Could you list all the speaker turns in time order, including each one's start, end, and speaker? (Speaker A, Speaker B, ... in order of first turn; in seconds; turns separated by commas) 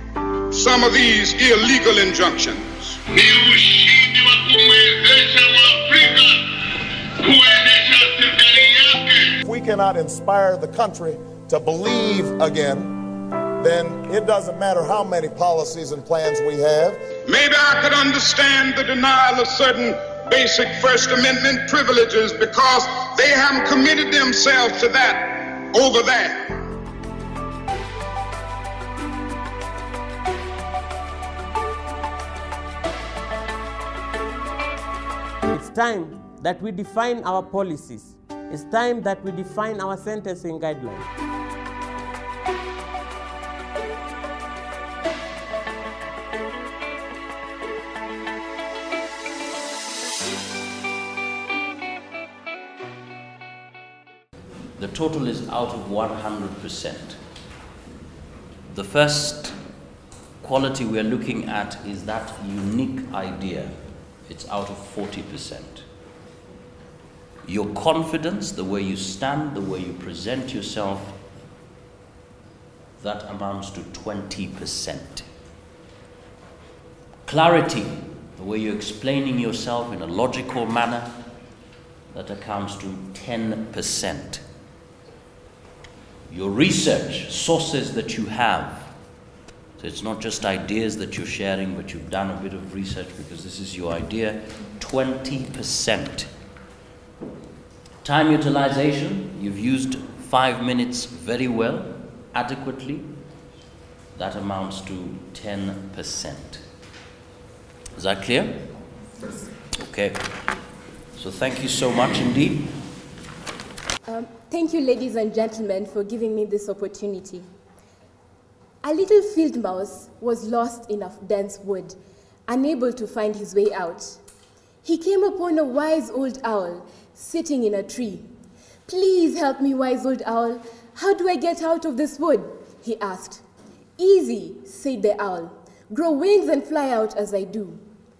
Speaker A: 0.5-3.0, Speaker B: 3.1-9.4, Speaker C: 9.4-13.0, Speaker C: 13.6-17.0, Speaker A: 17.2-26.6, Speaker D: 35.5-41.1, Speaker E: 54.8-57.2, Speaker E: 58.7-59.6, Speaker E: 60.4-65.8, Speaker E: 67.4-71.2, Speaker E: 73.0-75.3, Speaker E: 77.2-81.2, Speaker E: 82.1-84.4, Speaker E: 86.3-88.9, Speaker E: 89.8-96.3, Speaker E: 98.0-103.1, Speaker E: 104.1-106.6, Speaker E: 107.9-108.7, Speaker E: 109.8-110.3, Speaker E: 111.2-112.8, Speaker F: 114.0-117.5, Speaker F: 118.8-122.0, Speaker F: 122.5-124.2, Speaker F: 124.8-128.3, Speaker F: 128.9-133.4, Speaker F: 134.0-137.8